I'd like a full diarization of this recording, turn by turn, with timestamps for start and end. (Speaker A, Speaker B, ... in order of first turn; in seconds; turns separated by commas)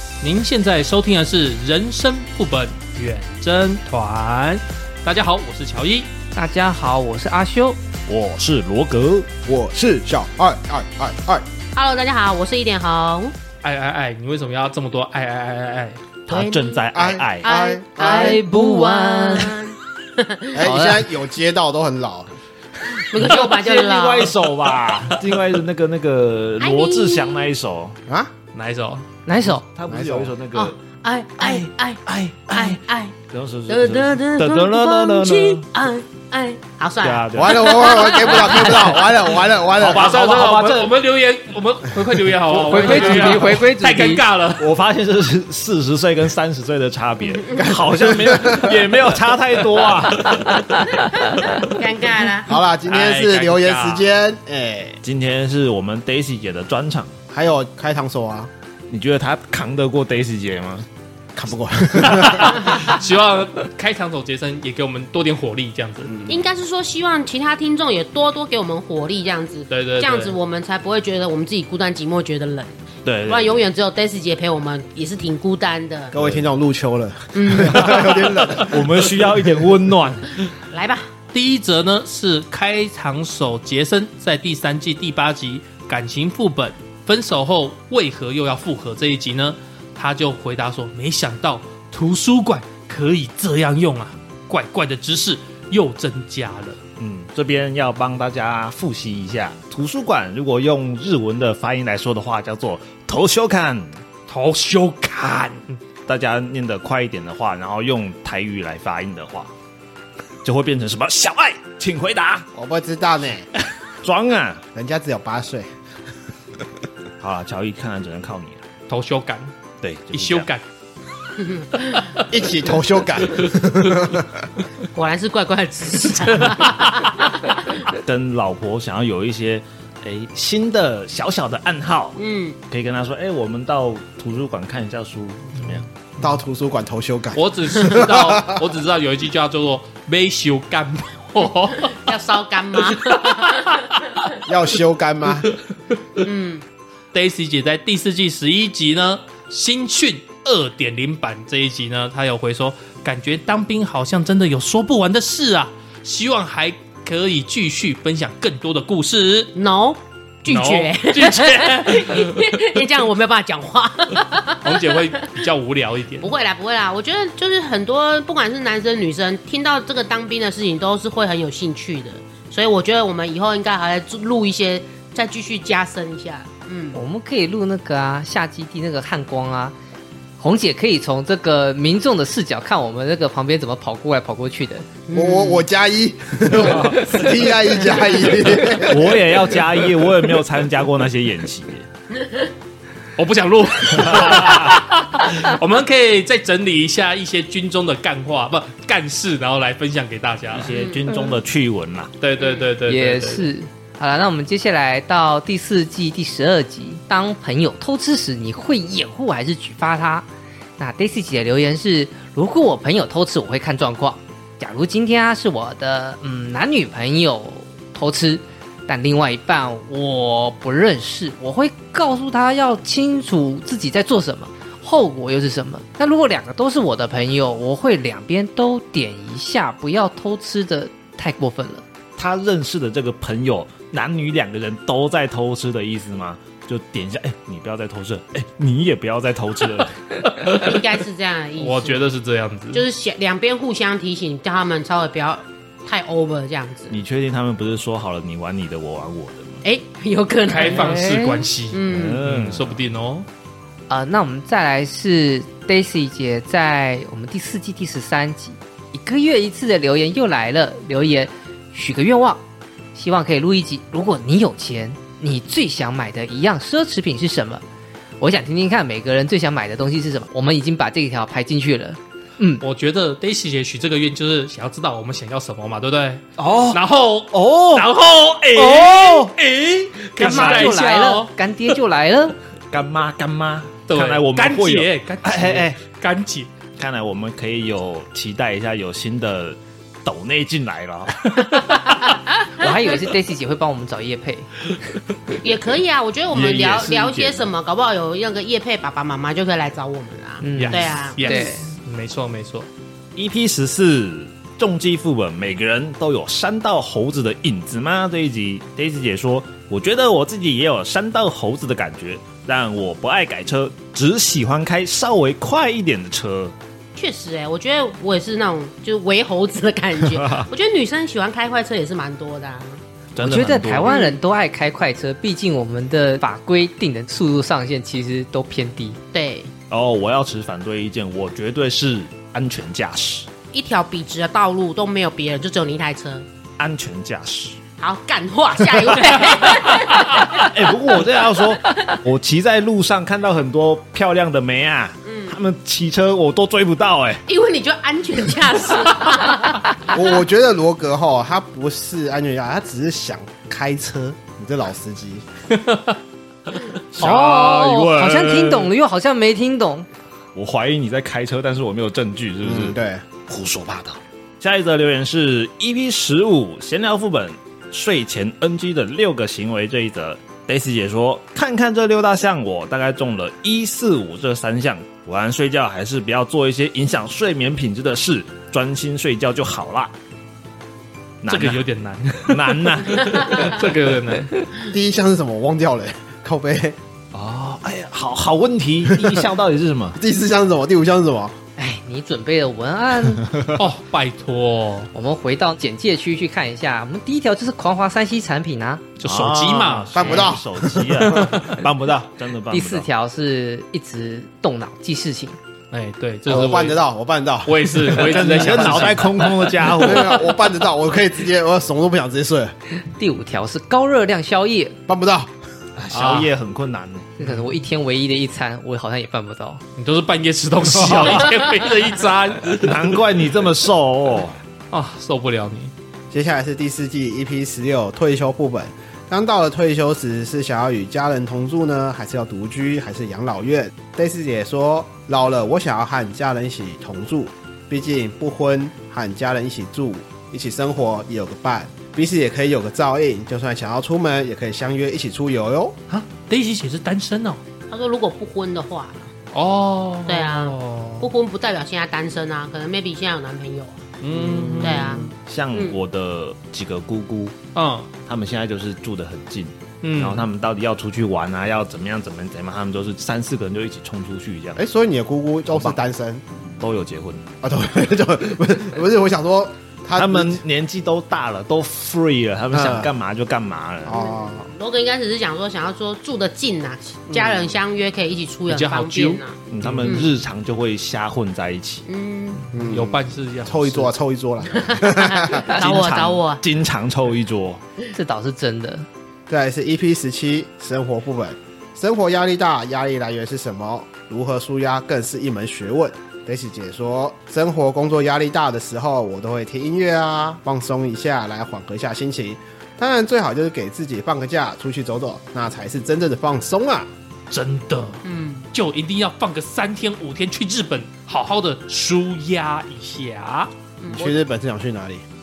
Speaker A: 0.2-6.1, Speaker B: 6.3-7.8, Speaker C: 8.1-9.3, Speaker D: 9.4-11.4, Speaker E: 11.7-13.3, Speaker A: 13.6-16.0, Speaker C: 16.3-17.5, Speaker E: 16.3-16.8, Speaker D: 16.9-18.4, Speaker E: 17.4-20.7, Speaker B: 18.0-19.6, Speaker D: 20.5-22.3, Speaker B: 20.6-21.0, Speaker E: 23.1-24.4, Speaker C: 23.1-28.0, Speaker E: 26.6-27.5, Speaker A: 28.5-29.0, Speaker B: 29.2-29.6, Speaker C: 29.4-30.8, Speaker D: 29.9-30.3, Speaker E: 30.5-33.1, Speaker C: 31.4-35.6, Speaker E: 33.7-39.4, Speaker C: 37.0-37.6, Speaker D: 37.3-40.1, Speaker C: 39.8-40.9, Speaker A: 39.8-44.7, Speaker B: 42.5-44.2, Speaker C: 42.7-43.5, Speaker C: 44.6-51.0, Speaker D: 48.0-48.8, Speaker A: 50.3-50.6, Speaker E: 51.4-52.6, Speaker D: 52.5-55.0, Speaker A: 52.9-54.0, Speaker C: 55.0-57.2, Speaker D: 57.3-58.5, Speaker C: 58.9-60.9, Speaker D: 61.3-62.6, Speaker A: 62.0-66.1, Speaker D: 66.1-66.4, Speaker E: 66.3-76.1, Speaker A: 69.7-70.3, Speaker C: 73.0-73.5, Speaker D: 76.1-79.0, Speaker C: 76.2-76.4, Speaker E: 77.3-78.3, Speaker C: 78.5-80.5, Speaker E: 80.7-81.1, Speaker A: 81.3-96.8, Speaker C: 97.0-104.0, Speaker A: 104.3-105.8, Speaker C: 106.0-109.5, Speaker C: 110.4-112.5, Speaker D: 112.5-113.5, Speaker C: 114.0-114.6, Speaker D: 114.7-115.7, Speaker C: 117.2-118.6, Speaker A: 118.9-119.5, Speaker C: 119.8-120.5, Speaker A: 120.1-120.6, Speaker E: 121.4-122.0, Speaker D: 122.3-124.4, Speaker E: 124.9-127.6, Speaker C: 127.9-132.2, Speaker E: 132.2-132.6, Speaker C: 132.7-135.9, Speaker D: 136.2-138.6, Speaker A: 137.3-142.1, Speaker E: 141.9-143.8, Speaker A: 142.9-143.9, Speaker D: 144.4-145.5, Speaker E: 146.2-146.6, Speaker A: 147.1-159.5, Speaker E: 159.6-165.0, Speaker A: 160.4-162.8, Speaker A: 164.5-166.3, Speaker E: 166.2-177.0, Speaker B: 176.9-179.7, Speaker B: 180.4-184.9, Speaker E: 185.1-185.6, Speaker D: 185.1-189.3, Speaker C: 186.6-187.1, Speaker C: 188.8-191.9, Speaker E: 192.2-192.5, Speaker A: 193.2-200.7, Speaker C: 194.1-194.8, Speaker C: 200.5-202.1, Speaker E: 200.7-201.4, Speaker A: 202.2-203.5, Speaker E: 202.4-202.7, Speaker B: 202.9-210.2, Speaker B: 210.8-231.8, Speaker C: 232.2-240.2, Speaker A: 240.3-240.8, Speaker E: 240.5-242.1, Speaker A: 241.6-242.8, Speaker E: 242.7-247.0, Speaker C: 246.9-249.6, Speaker E: 249.6-252.2, Speaker A: 250.5-253.3, Speaker B: 250.6-251.4, Speaker C: 251.9-252.8, Speaker B: 253.9-262.4, Speaker B: 262.9-267.6, Speaker B: 268.2-272.6, Speaker A: 272.6-281.3, Speaker C: 276.4-277.9, Speaker C: 278.5-279.3, Speaker C: 280.2-280.8, Speaker B: 280.2-282.4, Speaker C: 282.7-285.8, Speaker A: 283.9-286.5, Speaker C: 286.8-291.6, Speaker E: 292.0-292.8, Speaker B: 292.6-294.6, Speaker E: 295.4-301.5, Speaker C: 296.3-297.4, Speaker B: 300.4-301.7, Speaker A: 300.6-302.7, Speaker C: 303.1-316.5, Speaker E: 316.9-322.8, Speaker C: 320.2-320.4, Speaker C: 323.1-324.0, Speaker B: 323.2-329.0, Speaker E: 323.9-324.2, Speaker E: 329.1-329.5, Speaker C: 329.7-333.3, Speaker E: 333.5-336.2, Speaker C: 336.6-337.6, Speaker E: 337.8-340.6, Speaker C: 339.6-347.2, Speaker E: 345.0-345.4, Speaker E: 347.3-350.0, Speaker D: 349.9-355.2, Speaker C: 356.9-358.7, Speaker B: 356.9-359.9, Speaker C: 360.3-379.9, Speaker D: 362.4-363.1, Speaker C: 381.2-381.6, Speaker A: 381.3-384.5, Speaker C: 382.2-383.6, Speaker D: 384.6-386.8, Speaker C: 387.1-390.0, Speaker D: 390.0-391.4, Speaker B: 391.6-393.2, Speaker A: 393.6-394.9, Speaker B: 394.9-398.8, Speaker A: 399.0-400.1, Speaker C: 399.0-402.9, Speaker D: 399.9-401.0, Speaker A: 401.1-401.6, Speaker B: 402.5-405.4, Speaker A: 405.7-406.8, Speaker D: 406.3-409.0, Speaker A: 407.4-410.2, Speaker C: 407.9-410.1, Speaker D: 409.7-412.5, Speaker B: 412.9-414.8, Speaker D: 414.9-415.3, Speaker C: 415.8-417.1, Speaker A: 415.9-416.3, Speaker B: 417.2-419.6, Speaker A: 419.8-423.0, Speaker C: 420.8-421.1, Speaker C: 422.5-424.4, Speaker A: 424.7-425.7, Speaker D: 426.1-445.8, Speaker A: 445.9-447.4, Speaker E: 447.7-449.1, Speaker A: 449.3-451.1, Speaker E: 450.1-453.8, Speaker A: 454.0-455.0, Speaker D: 454.1-455.1, Speaker E: 454.6-455.8, Speaker C: 455.2-457.3, Speaker A: 457.5-457.9, Speaker C: 458.1-464.6, Speaker A: 459.8-460.3, Speaker D: 464.6-466.2, Speaker C: 465.5-465.8, Speaker C: 466.6-467.2, Speaker D: 467.4-470.4, Speaker C: 469.9-474.0, Speaker D: 472.5-472.9, Speaker D: 473.8-474.5, Speaker E: 473.9-480.1, Speaker D: 477.1-477.5, Speaker A: 478.5-480.0, Speaker C: 479.5-481.9, Speaker E: 481.9-482.5, Speaker A: 482.5-483.9, Speaker D: 482.5-485.5, Speaker E: 484.5-486.4, Speaker C: 485.4-487.6, Speaker B: 487.9-488.9, Speaker D: 489.3-506.9, Speaker A: 507.3-513.5, Speaker E: 508.0-508.4, Speaker E: 513.8-514.1, Speaker D: 513.9-515.0